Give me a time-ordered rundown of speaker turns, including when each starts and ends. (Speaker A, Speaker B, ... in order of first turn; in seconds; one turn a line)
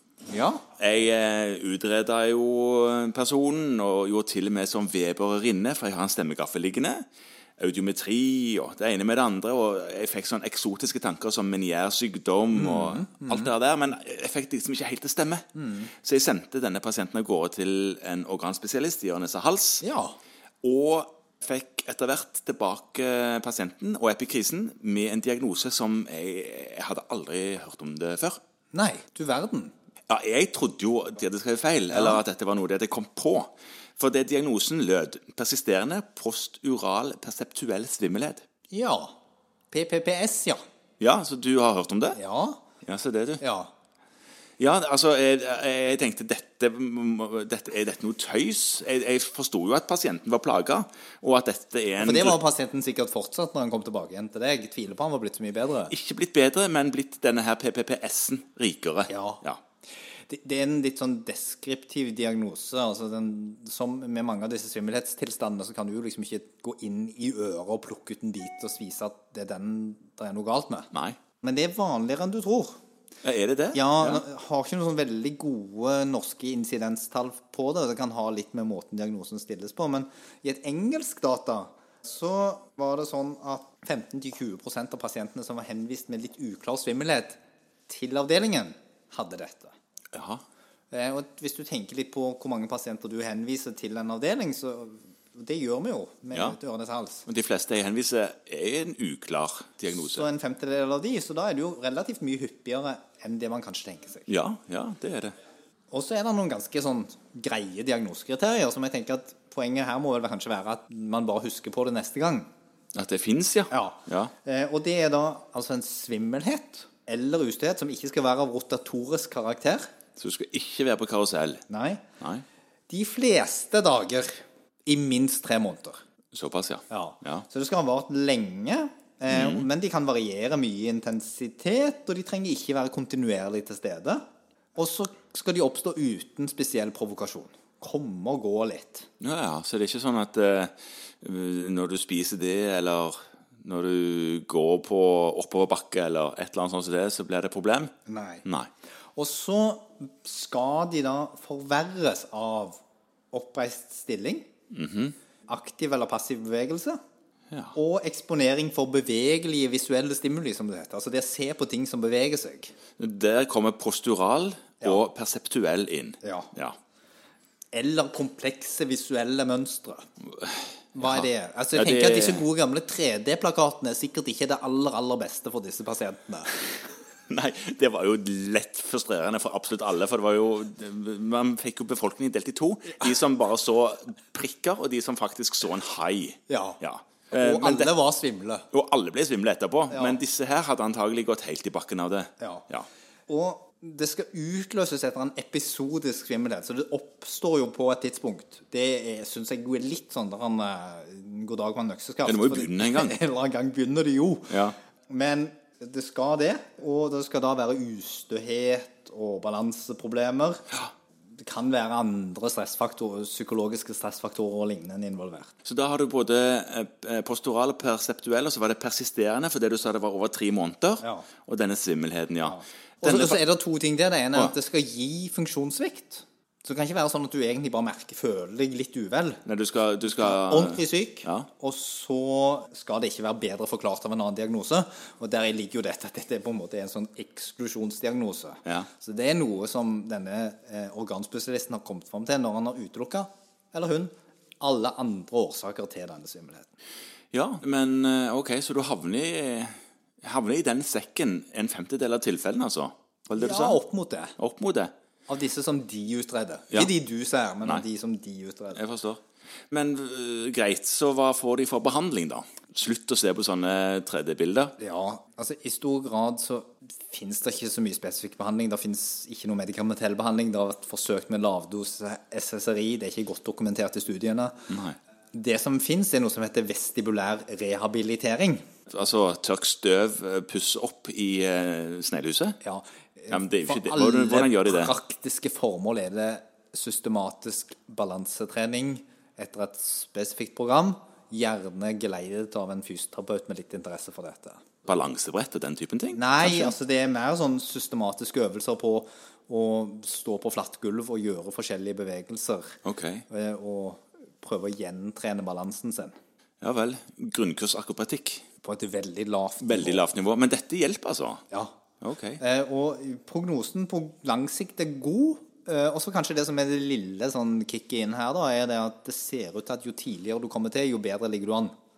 Speaker A: 0.3-0.6
Speaker B: 0.8-7.0
Speaker B: 7.6-19.8
Speaker A: 12.6-13.5
Speaker A: 15.6-15.9
Speaker A: 19.8-20.2
Speaker B: 20.6-28.4
Speaker A: 28.7-29.7
Speaker B: 30.1-38.4
Speaker A: 31.9-32.2
Speaker A: 38.7-39.1
Speaker A: 39.7-40.6
Speaker B: 41.0-42.2
Speaker A: 42.1-42.6
Speaker B: 42.8-43.4
Speaker A: 43.4-43.7
Speaker B: 44.6-52.4
Speaker A: 52.0-55.9
Speaker B: 55.9-59.6
Speaker A: 59.1-59.4
Speaker A: 60.3-70.9
Speaker A: 71.4-72.8
Speaker B: 73.2-74.2
Speaker A: 73.7-89.7
Speaker B: 90.1-90.4
Speaker A: 90.9-97.2
Speaker B: 97.2-100.3
Speaker A: 100.0-104.3
Speaker B: 104.3-105.3
Speaker A: 105.9-112.5
Speaker B: 112.9-114.3
Speaker A: 113.7-119.9
Speaker B: 120.2-121.6
Speaker A: 121.7-122.0
Speaker B: 122.2-122.4
Speaker A: 122.9-126.0
Speaker B: 126.3-127.5
Speaker A: 126.9-134.2
Speaker B: 129.3-129.7
Speaker A: 134.8-139.1
Speaker B: 139.2-147.9
Speaker A: 148.1-148.4
Speaker A: 149.2-152.8
Speaker A: 153.3-154.5
Speaker B: 154.7-155.2
Speaker A: 155.5-157.0
Speaker A: 157.8-162.7
Speaker B: 163.0-166.8
Speaker A: 166.2-166.5
Speaker A: 167.7-170.1
Speaker B: 170.4-172.5
Speaker A: 170.9-176.6
Speaker B: 177.3-187.9
Speaker A: 186.5-186.8
Speaker A: 187.3-188.7
Speaker B: 188.7-192.8
Speaker A: 189.9-190.2
Speaker A: 192.4-192.7
Speaker A: 193.3-210.6
Speaker B: 202.2-203.2
Speaker B: 204.5-204.8
Speaker A: 211.4-215.6
Speaker B: 215.7-223.4
Speaker A: 221.0-221.3
Speaker A: 222.4-229.4
Speaker B: 229.5-231.5
Speaker A: 230.0-246.7
Speaker B: 247.3-253.8
Speaker A: 253.4-254.3
Speaker B: 254.4-254.9
Speaker A: 255.3-258.8
Speaker B: 258.8-259.2
Speaker B: 259.7-264.8
Speaker A: 264.8-274.7
Speaker B: 274.7-274.9
Speaker A: 275.3-278.6
Speaker B: 278.9-282.6
Speaker A: 282.6-294.6
Speaker B: 283.3-284.9
Speaker B: 294.9-296.8
Speaker A: 296.1-302.8
Speaker B: 302.9-303.2
Speaker A: 303.3-306.1
Speaker B: 306.6-308.4
Speaker A: 308.6-310.1
Speaker B: 309.6-311.4
Speaker A: 311.5-311.8
Speaker B: 312.0-312.4
Speaker A: 312.4-321.7